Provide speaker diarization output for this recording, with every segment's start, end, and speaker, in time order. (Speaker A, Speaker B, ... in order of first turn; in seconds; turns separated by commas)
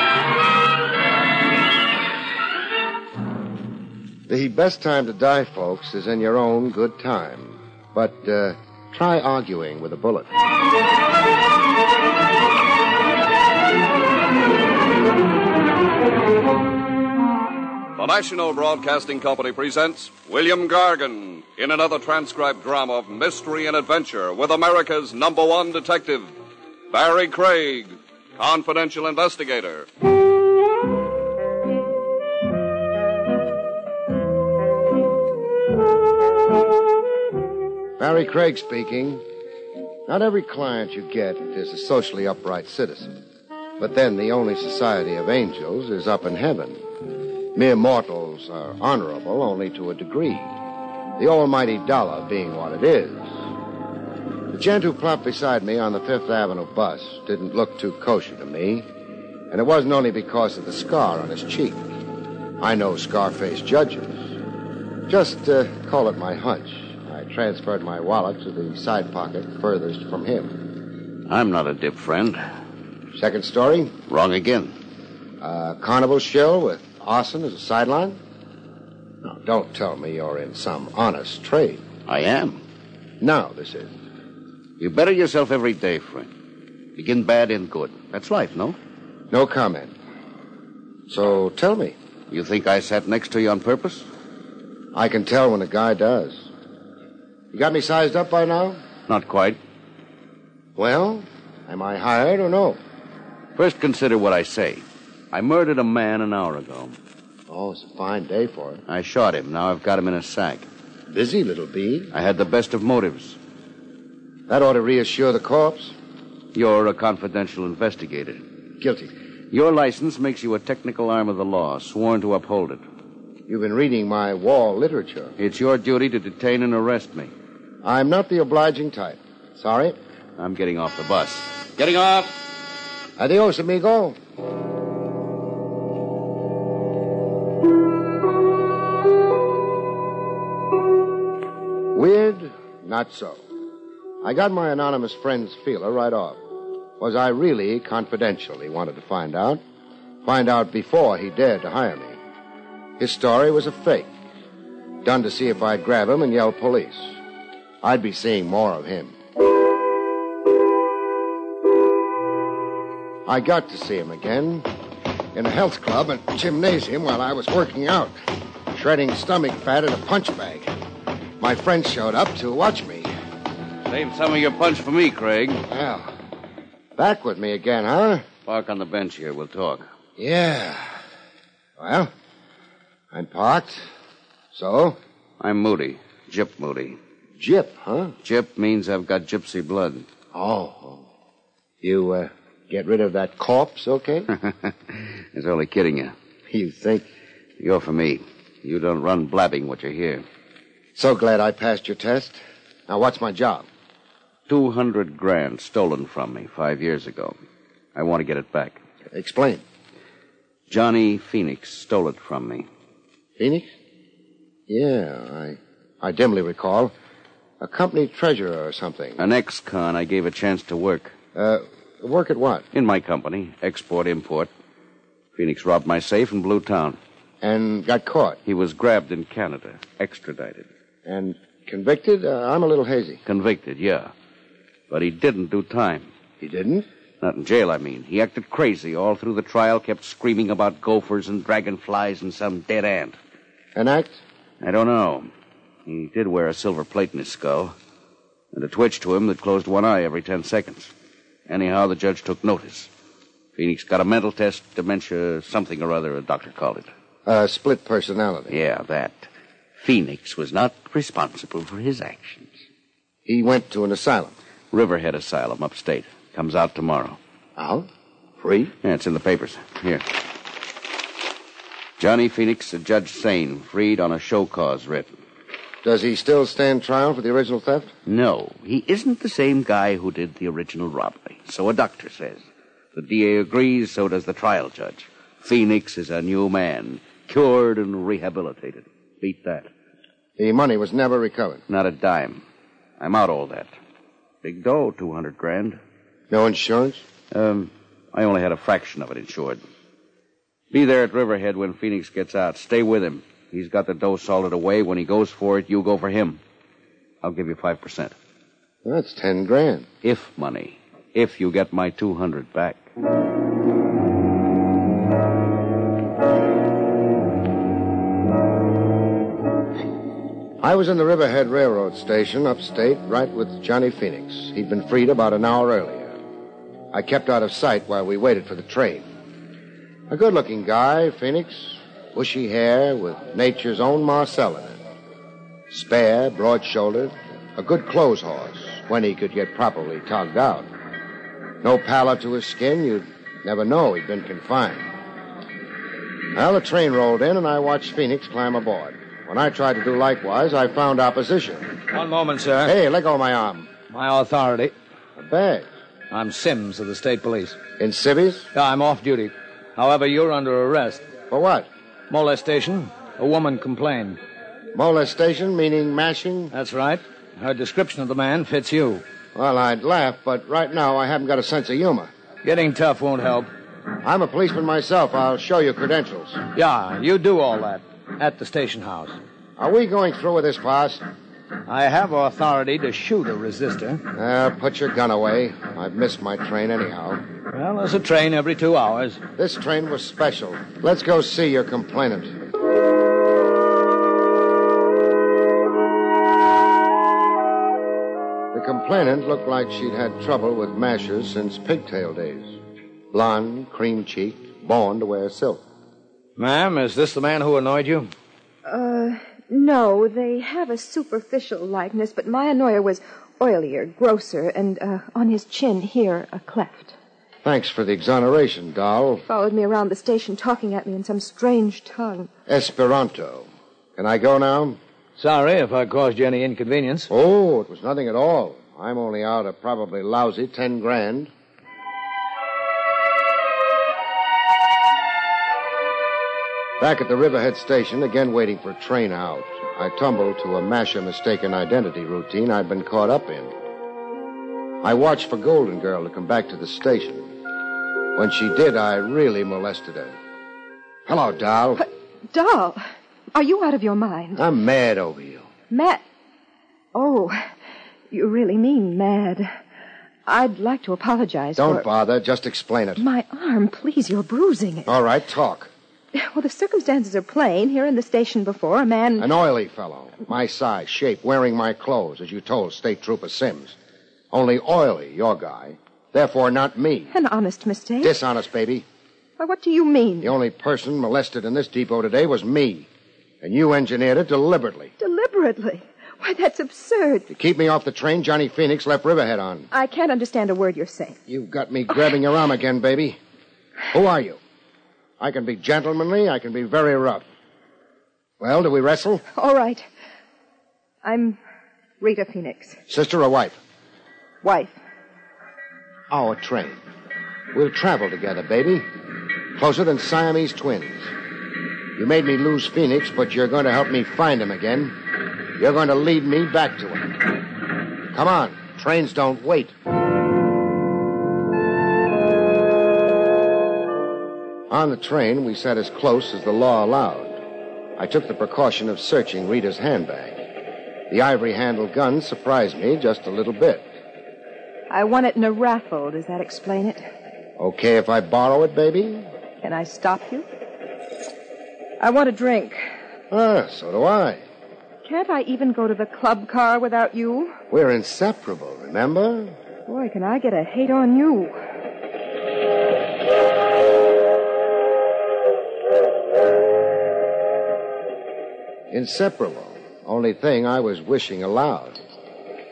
Speaker A: 4.3-10.3, Speaker B: 18.0-26.3, Speaker B: 26.9-29.9, Speaker A: 38.0-39.2, Speaker A: 40.1-43.2, Speaker A: 43.8-46.8, Speaker A: 47.5-50.5, Speaker A: 51.2-53.4, Speaker A: 54.5-58.9, Speaker A: 59.5-61.9, Speaker A: 62.6-64.3, Speaker A: 65.1-70.6, Speaker C: 71.3-72.4, Speaker A: 73.2-74.0, Speaker C: 74.1-74.8, Speaker A: 75.4-78.2, Speaker A: 79.2-81.9, Speaker C: 82.1-82.6, Speaker A: 83.2-84.0, Speaker C: 84.8-86.3, Speaker C: 87.0-88.8, Speaker A: 89.3-89.9, Speaker A: 91.1-92.0, Speaker C: 92.3-94.1, Speaker A: 94.9-96.5, Speaker A: 97.5-98.8, Speaker C: 99.1-99.6, Speaker A: 100.8-102.8, Speaker C: 103.5-107.0, Speaker A: 107.5-108.8, Speaker C: 108.9-110.7, Speaker A: 111.1-112.1, Speaker C: 112.1-113.4, Speaker A: 114.5-116.0, Speaker C: 116.5-118.5, Speaker A: 118.8-119.1, Speaker C: 119.5-122.8, Speaker A: 123.5-125.4, Speaker C: 125.4-127.3, Speaker A: 127.8-130.0, Speaker C: 130.4-132.5, Speaker A: 133.2-134.2, Speaker A: 141.9-143.4, Speaker A: 144.2-146.4, Speaker A: 147.0-149.6, Speaker A: 150.2-152.2, Speaker A: 153.0-154.1, Speaker A: 155.0-157.2, Speaker A: 157.8-159.2, Speaker A: 163.3-164.7, Speaker A: 165.3-168.2, Speaker A: 168.7-170.7, Speaker A: 171.4-173.1, Speaker C: 173.9-175.6, Speaker A: 175.7-176.1, Speaker A: 177.0-178.3, Speaker C: 178.5-179.9, Speaker A: 180.2-181.0, Speaker A: 181.8-182.1, Speaker A: 183.1-183.9, Speaker A: 184.5-185.0, Speaker C: 185.4-187.0, Speaker A: 187.4-188.2, Speaker C: 188.2-190.1, Speaker A: 190.3-191.1, Speaker A: 191.8-194.3, Speaker C: 194.4-196.1, Speaker A: 196.5-197.1, Speaker C: 197.6-200.2, Speaker A: 201.0-203.7, Speaker C: 204.5-207.4, Speaker C: 207.9-208.8, Speaker A: 209.1-209.6, Speaker C: 210.7-212.7, Speaker A: 213.4-213.7, Speaker A: 214.7-216.9, Speaker A: 217.6-219.2, Speaker C: 219.2-221.2, Speaker A: 221.3-222.7, Speaker C: 222.7-224.5, Speaker C: 225.4-227.0, Speaker A: 227.4-228.4, Speaker C: 228.5-230.7, Speaker A: 231.1-233.2, Speaker C: 233.3-234.1, Speaker C: 234.9-236.1, Speaker A: 236.4-236.9, Speaker C: 237.2-243.2, Speaker A: 243.8-244.2, Speaker C: 244.6-245.3, Speaker C: 245.9-247.8, Speaker C: 248.5-250.9, Speaker C: 251.5-252.9, Speaker C: 253.6-256.9, Speaker A: 257.3-258.6, Speaker C: 258.5-262.6, Speaker A: 263.3-264.3, Speaker C: 264.7-267.2, Speaker A: 267.6-267.9, Speaker A: 268.4-268.7, Speaker C: 268.8-270.1, Speaker C: 272.0-275.1, Speaker A: 275.8-277.9, Speaker C: 278.1-289.7, Speaker A: 290.4-291.6, Speaker C: 291.7-292.4, Speaker C: 293.0-293.7, Speaker C: 294.4-295.8, Speaker A: 296.3-297.0, Speaker C: 297.3-299.6, Speaker C: 300.7-306.4, Speaker C: 307.2-308.1, Speaker A: 308.8-309.9, Speaker C: 310.0-312.9, Speaker A: 320.6-326.2, Speaker A: 326.9-329.1, Speaker A: 330.1-334.8, Speaker A: 335.7-340.7, Speaker A: 341.6-344.9, Speaker A: 346.3-351.8, Speaker D: 351.9-352.8, Speaker A: 352.6-353.7, Speaker D: 353.9-354.7, Speaker A: 355.2-355.7, Speaker D: 356.1-357.6, Speaker A: 357.8-358.5, Speaker D: 358.5-361.1, Speaker A: 361.3-361.7, Speaker D: 362.1-364.2, Speaker A: 364.7-366.5, Speaker D: 366.5-369.0, Speaker A: 369.4-372.1, Speaker D: 372.4-373.5, Speaker A: 374.0-376.4, Speaker D: 376.6-379.2, Speaker A: 379.6-381.0, Speaker D: 381.7-384.0, Speaker A: 384.1-387.3, Speaker D: 387.5-389.2, Speaker A: 389.4-392.4, Speaker A: 398.5-402.6, Speaker A: 403.1-405.6, Speaker D: 406.4-408.1, Speaker E: 408.6-416.9, Speaker A: 417.4-419.2, Speaker E: 419.3-422.3, Speaker A: 422.5-424.8, Speaker D: 425.2-427.1, Speaker A: 427.1-431.3, Speaker A: 436.8-443.5, Speaker A: 444.8-447.3, Speaker A: 448.1-450.2, Speaker A: 451.1-451.9, Speaker E: 451.8-454.4, Speaker A: 454.4-455.5, Speaker E: 455.7-456.0, Speaker E: 456.9-457.5, Speaker E: 458.1-459.6, Speaker E: 460.3-461.9, Speaker A: 461.6-463.0, Speaker E: 463.0-464.9, Speaker A: 464.9-465.7, Speaker E: 466.1-469.3, Speaker A: 469.2-473.8, Speaker A: 474.3-477.1, Speaker E: 477.1-478.1, Speaker A: 478.0-478.9, Speaker E: 479.4-480.3, Speaker A: 480.2-482.9, Speaker A: 483.4-484.9, Speaker E: 485.0-487.3, Speaker A: 487.3-489.7, Speaker E: 489.7-491.2, Speaker A: 491.3-493.2, Speaker A: 493.9-494.4, Speaker A: 495.2-497.3, Speaker A: 498.4-499.2, Speaker E: 499.4-499.9, Speaker E: 501.0-501.4, Speaker E: 502.0-502.8, Speaker A: 502.9-503.6, Speaker E: 504.4-504.8, Speaker A: 506.1-506.8, Speaker A: 507.5-508.9, Speaker A: 509.6-511.1, Speaker A: 512.0-515.0, Speaker A: 515.6-517.3, Speaker A: 518.1-519.7, Speaker A: 524.7-527.4, Speaker A: 528.0-530.5, Speaker A: 531.1-533.9, Speaker E: 534.9-537.0, Speaker A: 537.6-539.3, Speaker E: 539.6-540.5, Speaker E: 542.0-542.9, Speaker A: 543.3-544.5, Speaker E: 545.0-547.6, Speaker A: 547.7-549.5, Speaker E: 549.9-551.6, Speaker A: 558.9-562.0